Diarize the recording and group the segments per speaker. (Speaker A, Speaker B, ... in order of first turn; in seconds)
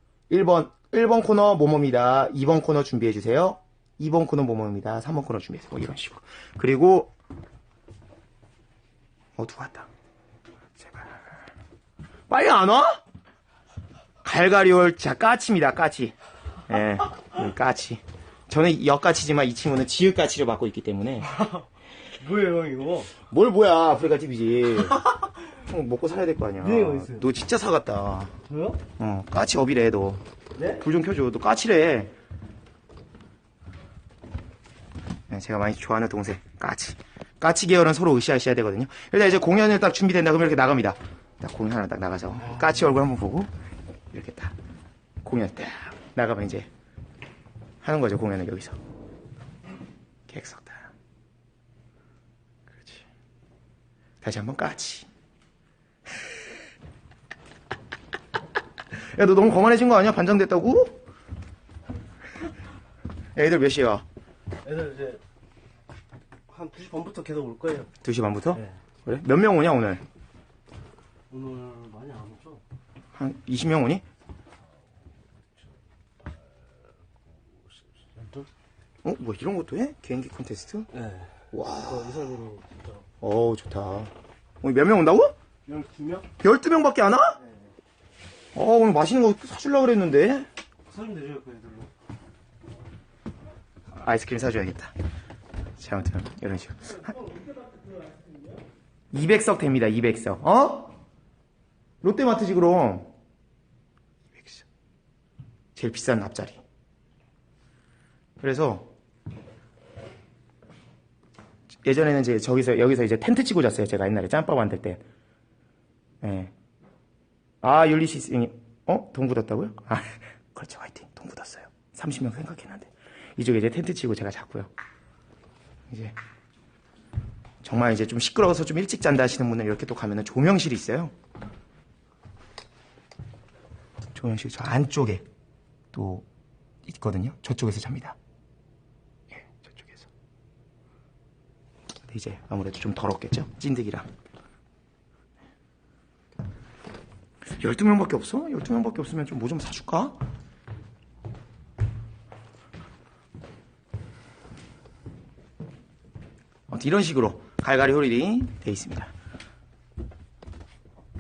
Speaker A: 0.3-7.2, 9.4-9.9, 10.8-11.3, 12.3-13.0, 14.2-16.1, 16.7-21.3, 23.2-28.4, 29.0-30.2, 30.8-32.1, 35.3-43.5, 44.1-44.5, 45.2-46.7, 47.8-48.8, 50.3-50.9, 52.7-53.0, 54.2-55.1, 58.9-61.0, 63.4-64.0, 68.0-70.0, 73.2-74.0, 79.0-80.9, 81.5-82.1, 83.2-85.3, 86.4-87.4, 88.5-90.5, 93.9-94.9, 95.8-97.1, 99.1-101.0, 102.0-103.1, 104.3-104.7, 105.8-106.6, 108.4-108.9, 111.8-115.0, 116.2-116.5, 117.6-124.7, 125.9-126.2, 127.6-131.1, 134.1-135.3, 135.9-136.3, 136.9-138.2, 139.3-140.1, 142.1-144.1, 147.5-150.2, 156.7-159.1
Speaker B: 21.3-21.6, 22.2-23.1, 26.6-27.3, 28.5-28.8, 30.6-30.8, 64.6-65.2, 66.5-67.9, 71.3-72.6, 78.2-78.5, 80.9-81.3, 81.8-83.0, 85.7-86.3, 90.9-91.9, 97.1-98.6